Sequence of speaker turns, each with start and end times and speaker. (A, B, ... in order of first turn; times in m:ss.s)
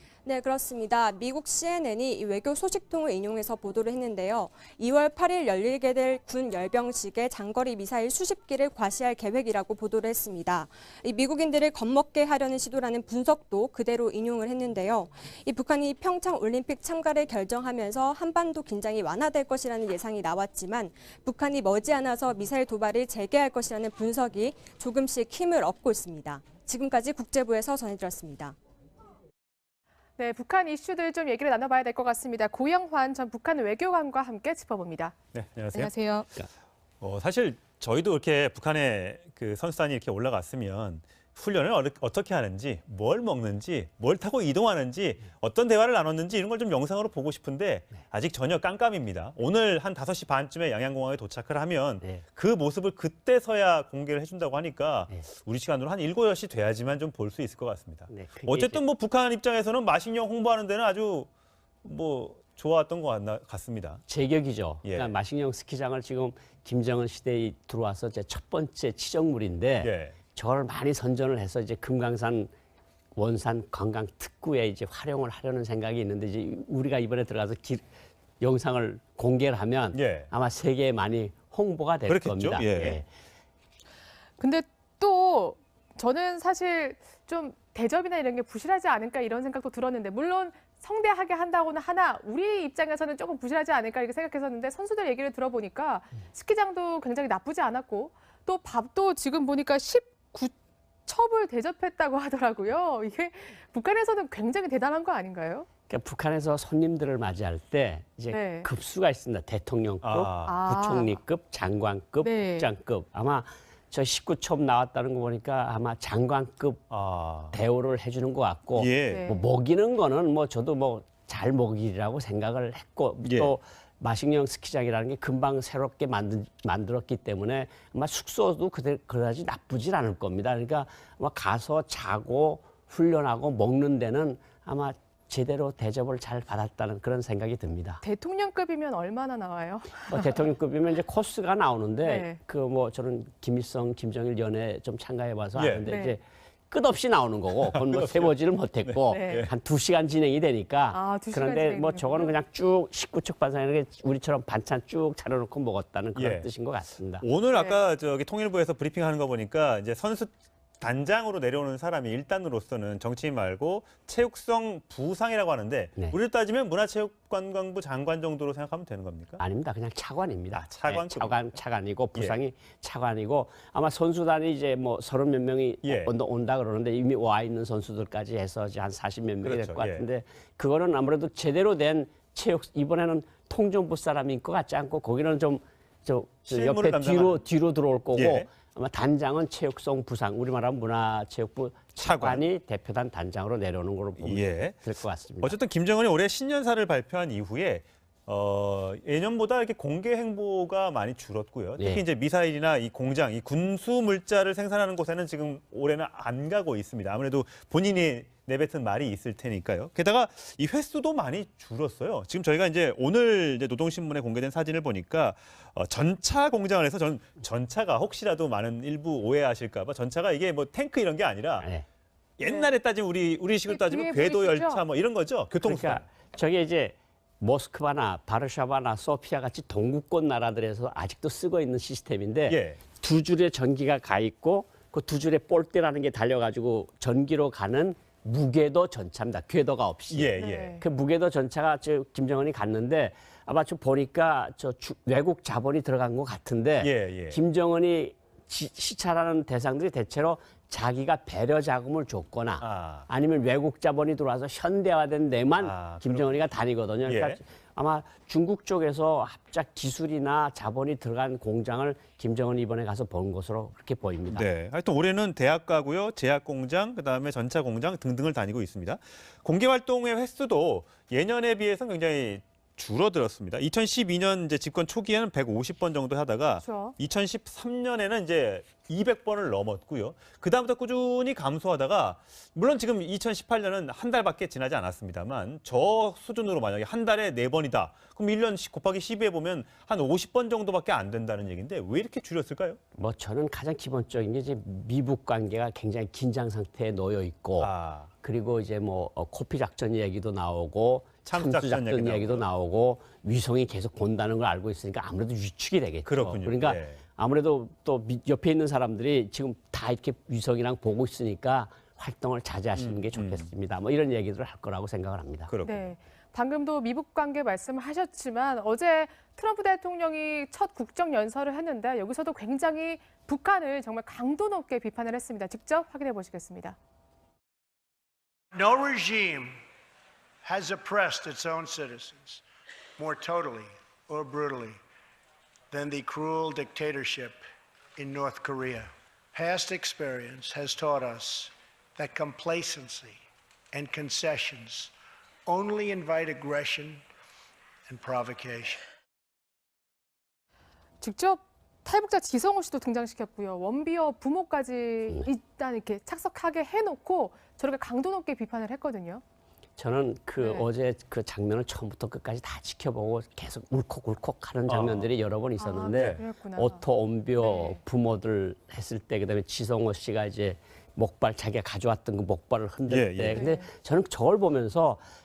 0:00.2-0:28.5 A
0:30.2-0:35.1 B
0:35.3-0:35.9 C
0:35.7-0:36.3 B
0:37.0-1:01.3 C
0:58.1-0:58.8 D
1:01.8-1:04.0 C
1:04.1-1:12.5 D
1:04.8-1:05.1 C
1:09.8-1:10.2 C
1:13.2-1:17.8 D
1:18.4-1:23.1 D
1:19.9-1:20.3 C
1:22.1-1:23.0 C
1:24.4-1:40.5 B
1:41.1-1:45.7 B
1:45.9-1:56.8 D
1:48.3-1:48.7 B
1:50.0-1:50.6 C
1:50.5-1:51.2 B
1:52.2-1:52.7 B
1:56.9-1:57.6 C
1:57.5-2:18.0 D
1:58.7-1:59.2 C
1:59.1-1:59.4 B
2:03.2-2:03.5 C
2:18.0-2:20.4 B
2:20.1-2:37.2 D
2:22.0-2:22.4 B
2:25.5-2:25.8 C
2:25.9-2:26.2 B
2:27.7-2:28.3 C
2:28.8-2:29.5 C
2:29.1-2:29.5 B
2:30.9-2:32.4 B
2:36.1-2:36.5 C
2:37.2-2:49.4 C
2:37.5-2:37.8 B
2:49.4-3:15.6 D
2:50.5-2:51.5 C
2:55.8-2:56.1 C
2:59.4-3:00.0 C
3:06.5-3:07.4 C
3:08.1-3:08.5 C
3:12.0-3:12.5 C
3:14.2-3:14.8 C
3:15.4-3:41.7 C
3:21.8-3:22.0 D
3:42.4-3:46.0 C
3:42.4-3:42.7 B
3:43.7-3:44.8 B
3:45.6-4:24.4 D
3:52.5-3:52.8 C
4:00.1-4:00.8 C
4:00.4-4:00.8 B
4:06.8-4:07.4 C
4:12.6-4:13.0 C
4:15.6-4:16.4 C
4:17.0-4:17.4 C
4:24.3-4:52.8 C
4:36.6-4:36.9 B
4:53.0-5:15.5 D
4:57.6-4:58.1 C
5:01.3-5:02.4 C
5:06.0-5:07.0 C
5:12.8-5:13.5 C
5:15.5-5:15.9 C
5:15.6-5:26.8 B
5:28.5-5:29.5 E
5:30.4-5:32.4 E
5:33.0-5:34.8 E
5:35.7-5:37.4 E
5:38.0-5:43.2 E
5:43.7-5:44.9 E
5:45.4-5:47.0 E
5:47.9-5:48.8 E
5:51.0-5:59.2 B
5:59.8-6:15.0 D
6:00.4-6:00.7 B
6:04.7-6:05.1 C
6:05.6-6:06.8 B
6:07.4-6:07.8 B
6:12.9-6:13.5 C
6:13.3-6:13.7 B